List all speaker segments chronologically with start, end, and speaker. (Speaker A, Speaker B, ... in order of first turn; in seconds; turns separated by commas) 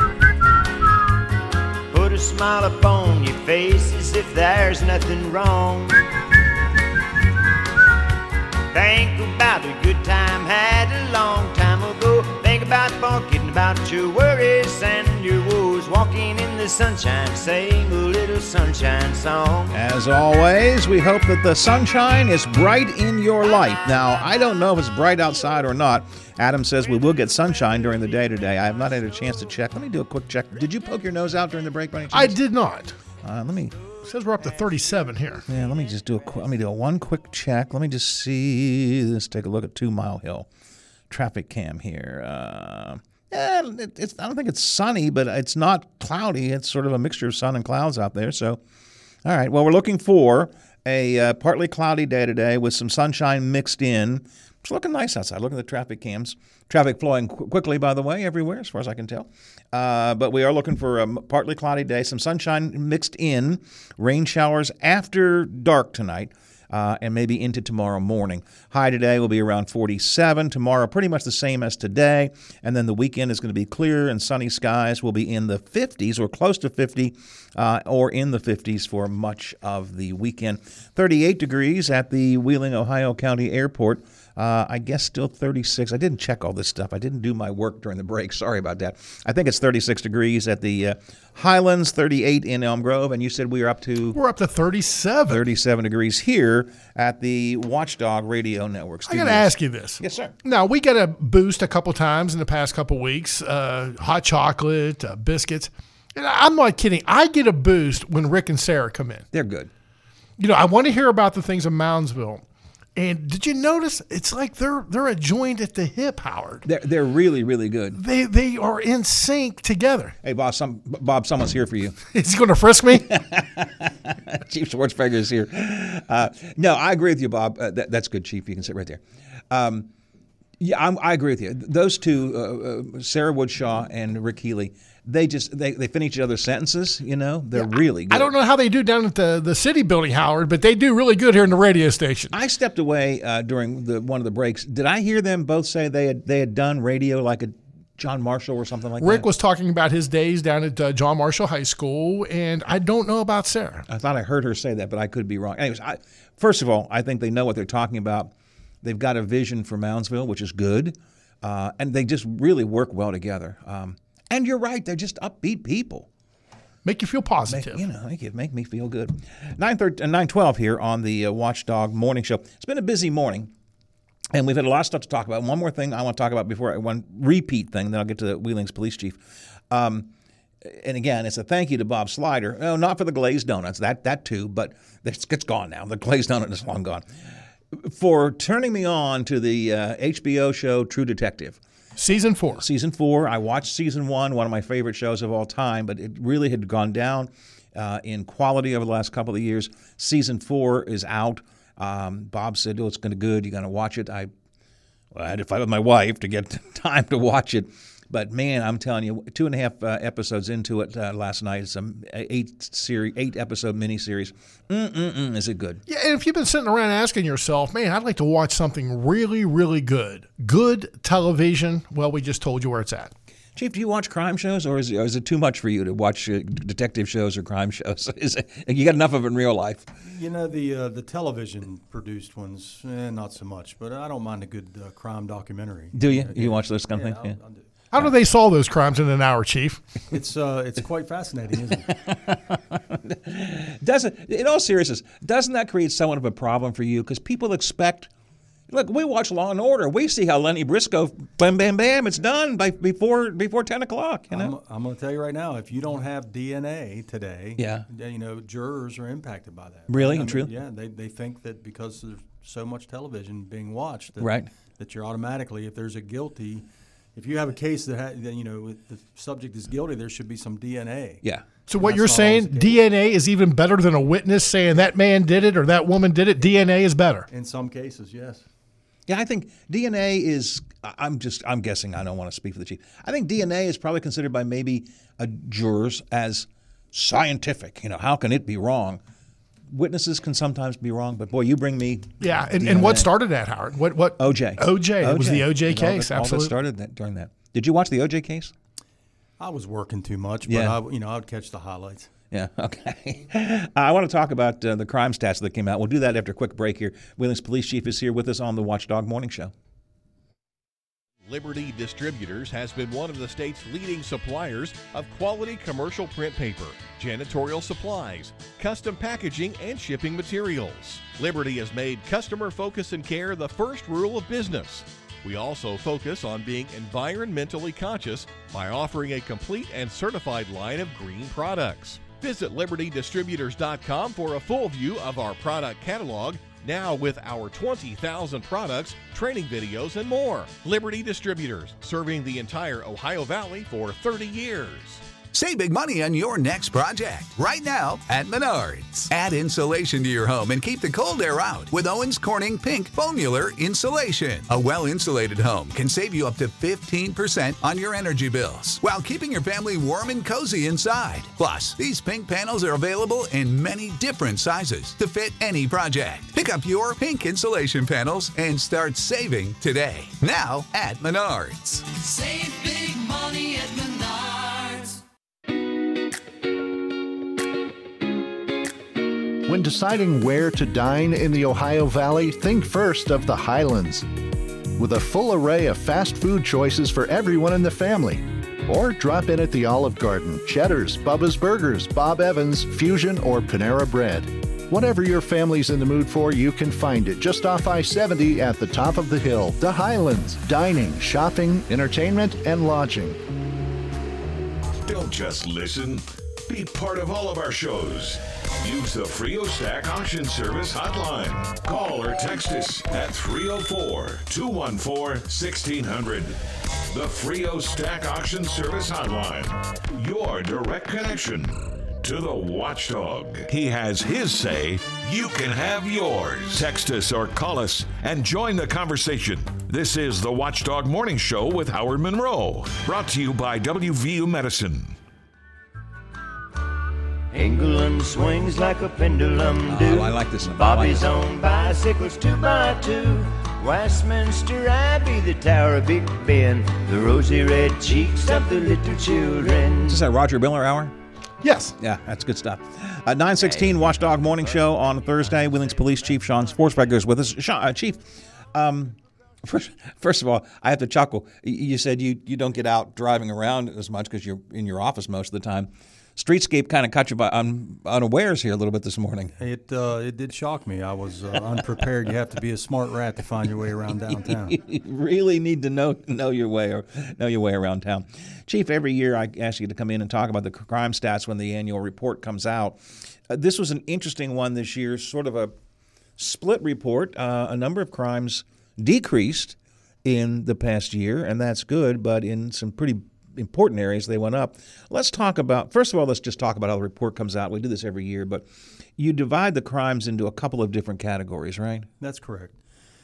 Speaker A: 1.9-6.1, Speaker A: 8.7-19.8, Speaker B: 19.7-32.4, Speaker C: 32.1-33.0, Speaker B: 33.2-33.8, Speaker C: 34.0-35.4, Speaker B: 35.5-40.5, Speaker B: 41.1-48.6, Speaker B: 49.2-94.2, Speaker C: 94.1-95.4, Speaker B: 95.3-100.3, Speaker C: 99.1-109.2, Speaker B: 109.3-109.7, Speaker C: 110.4-112.4, Speaker C: 113.0-116.6, Speaker B: 116.6-118.0, Speaker C: 117.9-120.2, Speaker B: 120.2-122.0, Speaker C: 122.0-123.1, Speaker B: 122.9-129.9, Speaker B: 130.6-138.3, Speaker C: 137.6-142.3, Speaker B: 142.3-149.2, Speaker C: 149.0-153.8, Speaker B: 153.9-166.1, Speaker C: 166.8-167.8, Speaker B: 167.5-173.5, Speaker B: 174.3-180.1, Speaker B: 180.6-187.1, Speaker B: 187.7-191.6, Speaker C: 192.0-192.6, Speaker B: 192.6-204.3, Speaker B: 205.1-215.8, Speaker C: 215.9-223.1, Speaker B: 223.5-229.9, Speaker D: 230.0-237.7, Speaker B: 235.9-237.4, Speaker C: 237.9-239.8, Speaker D: 240.1-242.0, Speaker B: 242.1-248.1, Speaker B: 248.7-254.5, Speaker D: 254.3-271.2, Speaker B: 257.6-257.9, Speaker B: 259.9-260.5, Speaker B: 264.2-264.5, Speaker C: 271.7-277.2, Speaker D: 271.8-272.8, Speaker D: 277.3-278.5, Speaker B: 279.1-289.0, Speaker B: 289.7-293.1, Speaker C: 292.2-296.5, Speaker B: 294.2-298.5, Speaker D: 299.4-302.1, Speaker B: 300.5-300.8, Speaker B: 302.3-309.5, Speaker E: 311.2-345.1, Speaker F: 345.3-371.9, Speaker G: 371.9-375.0, Speaker H: 379.4-384.1, Speaker H: 384.8-403.2, Speaker I: 404.8-434.9, Speaker A: 437.3-450.0, Speaker B: 439.7-441.1, Speaker B: 449.8-450.9, Speaker C: 451.4-451.7, Speaker B: 451.8-469.3, Speaker A: 453.4-456.4, Speaker D: 469.4-474.6, Speaker B: 474.1-485.5, Speaker B: 486.2-501.9, Speaker D: 502.0-502.6